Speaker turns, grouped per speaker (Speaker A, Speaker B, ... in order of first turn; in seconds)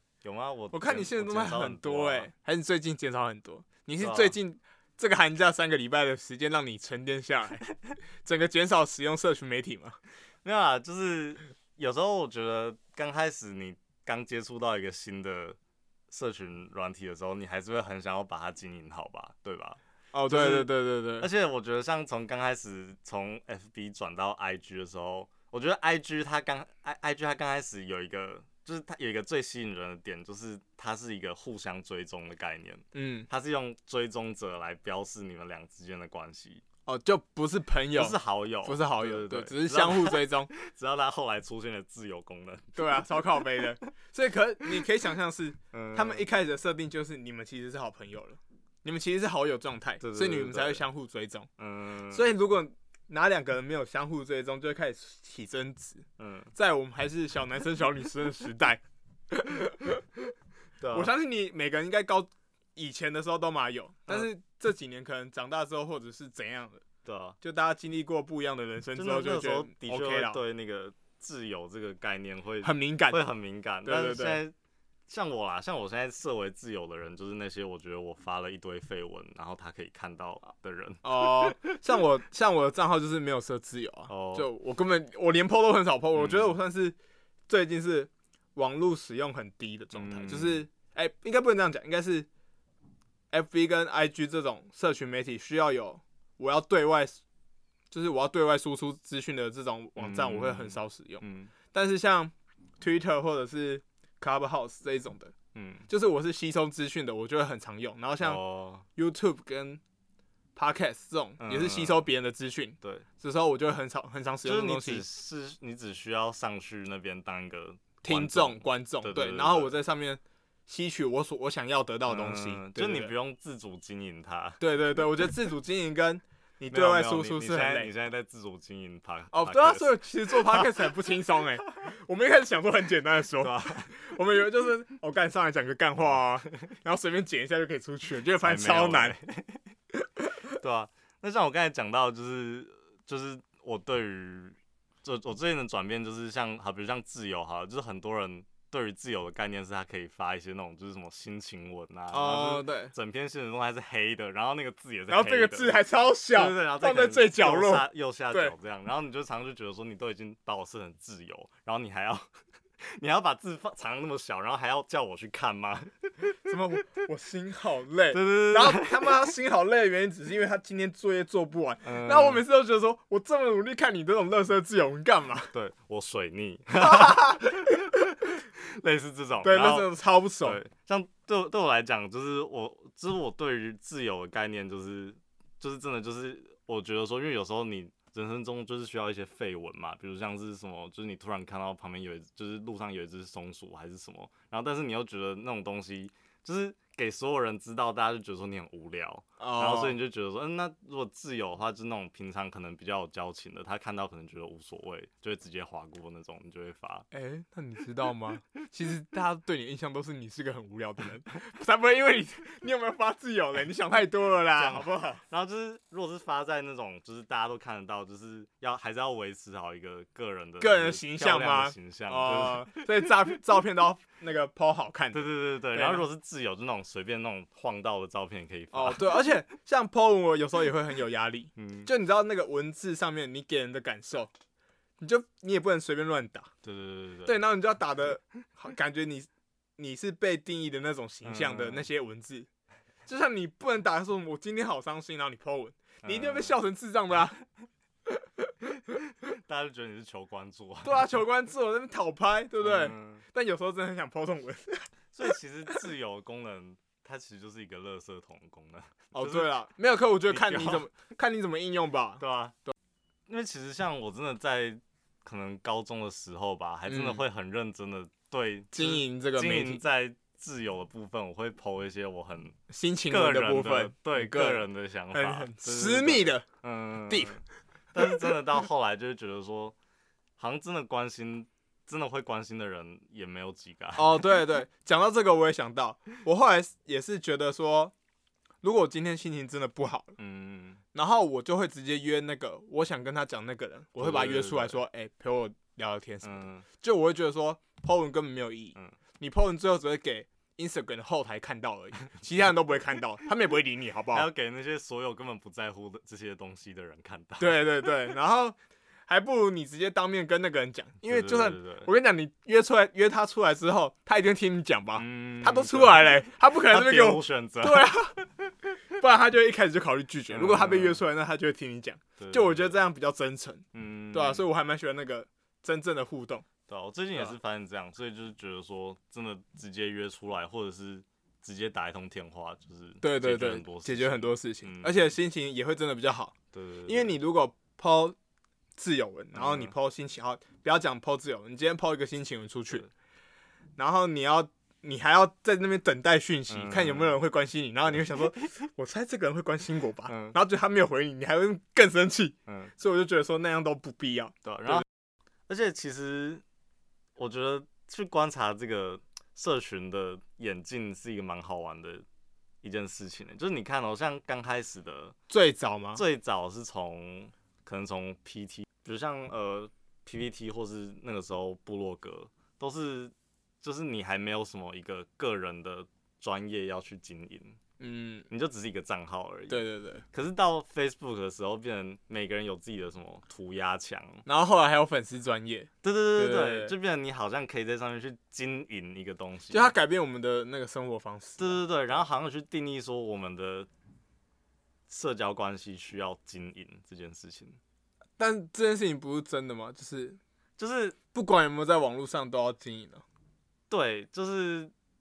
Speaker A: 0.2-2.3, 4.0-4.3, 10.4-15.6, 16.1-36.6, 37.9-43.6, 45.7-46.2, 50.0-50.8, 51.6-52.2, 56.2-56.5, 60.8-61.1, 67.0-67.4, 69.0-74.5, 75.1-81.6, 84.1-84.5, 86.1-86.5, 89.9-90.7, 100.0-101.5, 105.5-105.9, 108.2-108.8, 111.4-112.0, 114.4-119.7, 122.0-124.6, 126.7-130.9, 133.4-133.9, 138.4-139.6, 140.6-162.3, 162.8-166.5, 168.1-169.3, 171.8-172.4, 175.5-179.9, 180.4-207.1, 214.6-222.8, 225.1-229.2, 231.6-231.9, 236.6-237.4, 241.2-241.9, 246.0-246.6, 249.2-251.1, 252.6-253.2, 255.1-259.5, 260.3-260.9, 262.2-262.6, 263.3-272.5, 273.1-277.4, 277.9-279.7, 280.4-284.2, 290.2-290.8, 294.0-294.8, 296.2-296.6, 304.1-307.9, 311.0-311.9, 314.9-317.9, 320.3-321.0, 322.2-322.8, 323.7-324.4, 326.7-335.1, 336.5-337.1, 339.3-339.7, 346.5-347.1, 347.9-348.2, 350.1-350.4, 352.5-352.7, 354.4-354.8, 355.5-356.4, 357.1-362.0, 362.6-365.1, 365.9-377.6, 378.3-384.2, 385.8-389.7, 391.4-393.7, 394.9-397.6, 400.6-400.9, 403.7-404.7
Speaker B: 0.7-7.7, 8.2-10.0, 20.1-21.3, 32.9-33.3, 36.9-40.5, 42.7-51.5, 52.1-60.2, 60.9-66.8, 67.4-70.4, 72.6-73.2, 73.8-74.4, 81.0-87.0, 87.5-92.3, 93.3-97.2, 97.9-105.3, 105.9-108.4, 109.0-109.8, 110.5-115.0, 118.0-123.1, 124.6-127.9, 129.3-139.2, 152.1-152.9, 155.1-158.5, 166.4-175.5, 176.8-177.9, 179.4-180.6, 199.4-200.0, 207.1-215.2, 220.6-226.1, 228.7-234.3, 235.0-236.5, 237.2-242.5, 243.1-247.4, 248.1-248.5, 250.8-254.9, 259.1-262.7, 266.9-267.2, 268.7-269.8, 272.7-276.4, 277.1-277.4, 283.9-287.9, 288.6-290.2, 290.9-304.3, 307.4-308.6, 309.1-326.4, 333.0-336.3, 336.9-338.1, 338.8-342.9, 343.8-354.8, 365.3-366.0, 377.8-378.3, 379.5-380.0, 384.2-386.7, 389.5-391.6, 398.2-400.2, 401.1-403.0